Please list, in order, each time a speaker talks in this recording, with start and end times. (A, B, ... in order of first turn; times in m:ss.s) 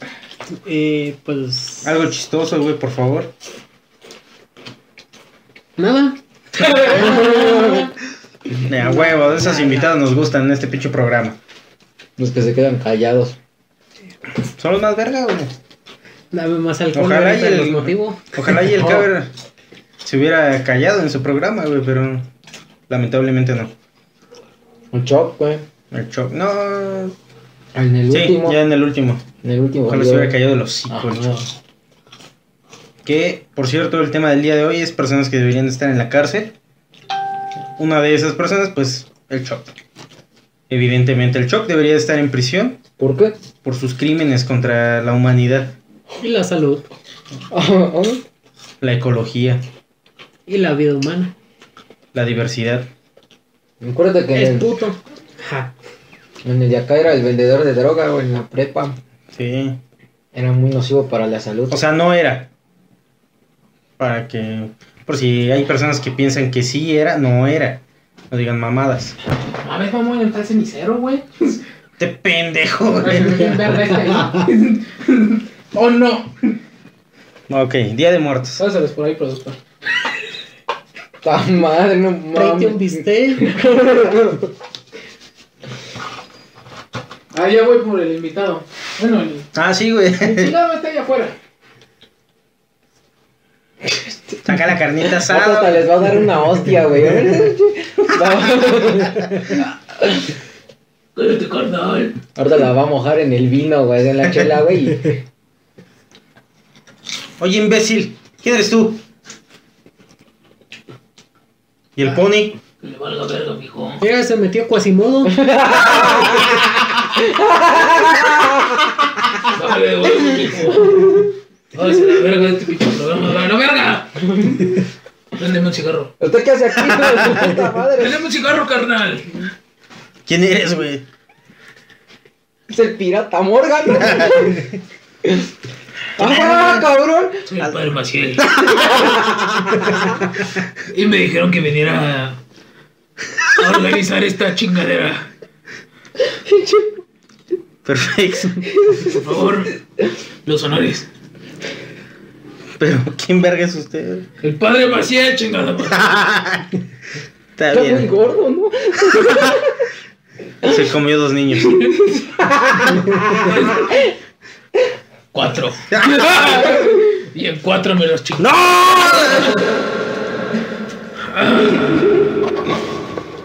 0:00.6-0:01.9 A
0:01.8-0:03.3 B
0:05.8-0:06.2 A
0:06.7-0:07.9 A
0:06.9-0:07.9 C
0:08.6-0:11.4 B
0:09.0-0:09.9 A
0:12.2-0:13.4 C
0:14.6-0:15.5 B
0:16.3-0:19.0 A
0:16.9-0:19.3 B
0:20.0-0:22.3 B
0:22.9-0:23.7 B
0:24.9-0:25.7 C
0:25.9-0:27.1 B
0:27.8-0:28.6 C
0:28.1-0:29.2 B
0:29.4-0:30.4 C
0:29.9-0:31.3 B
0:30.9-0:31.3 C
0:33.0-0:36.6 B
0:37.8-0:39.7 B
0:40.7-0:42.8 B
0:43.0-0:43.4 C
0:43.6-0:45.8 B
0:46.2-0:46.9 A
0:47.5-0:48.2 C
0:48.8-0:49.6 B
0:50.5-0:51.3 A
0:52.1-0:52.9 B
0:53.8-0:54.9 C
0:54.4-0:55.7 A
0:56.4-0:59.0 C
0:59.3-0:59.8 B
1:00.3-1:01.8 C
1:01.7-1:02.5 B
1:04.0-1:09.2 B
1:09.6-1:11.6 D
1:12.0-1:14.0 B
1:13.0-1:16.6 D
1:17.5-1:18.6 B
1:18.6-1:19.6 D
1:21.2-1:24.5 C
1:22.4-1:23.5 A
1:27.3-1:29.5 D
1:29.5-1:30.5 B
1:30.2-1:31.4 D
1:33.9-1:34.4 C
1:34.4-1:36.2 B
1:35.1-1:40.1 C
1:41.2-1:42.2 D
1:42.4-1:45.2 C
1:47.4-1:49.0 B
1:52.0-1:52.6 B
1:52.8-1:54.0 D
1:54.0-1:55.4 A
1:55.4-1:56.6 C
1:55.6-1:56.6 D
1:57.1-1:59.1 C
1:59.5-2:01.2 D
2:00.9-2:01.3 C
2:01.7-2:04.8 D
2:05.3-2:06.1 D
2:06.2-2:08.2 C
2:06.9-2:07.4 B
2:07.9-2:09.5 D
2:10.3-2:11.0 B
2:12.7-2:14.7 C
2:16.2-2:16.9 B
2:16.2-2:17.4 C
2:17.5-2:18.6 D
2:18.4-2:18.9 B
2:18.7-2:20.0 C
2:20.9-2:22.4 D
2:23.4-2:25.3 D
2:26.5-2:26.9 C
2:27.8-2:28.8 B
2:28.8-2:29.2 C
2:29.0-2:29.8 D
2:30.4-2:31.1 D
2:32.8-2:34.3 B
2:34.4-2:36.2 D
2:36.0-2:36.7 B
2:37.6-2:38.1 B
2:37.7-2:39.7 C
2:40.6-2:41.8 B
2:42.2-2:43.9 C
2:43.6-2:43.8 D
2:45.3-2:49.5 D
2:45.9-2:46.7 B
2:48.4-2:49.6 B
2:51.3-2:51.9 D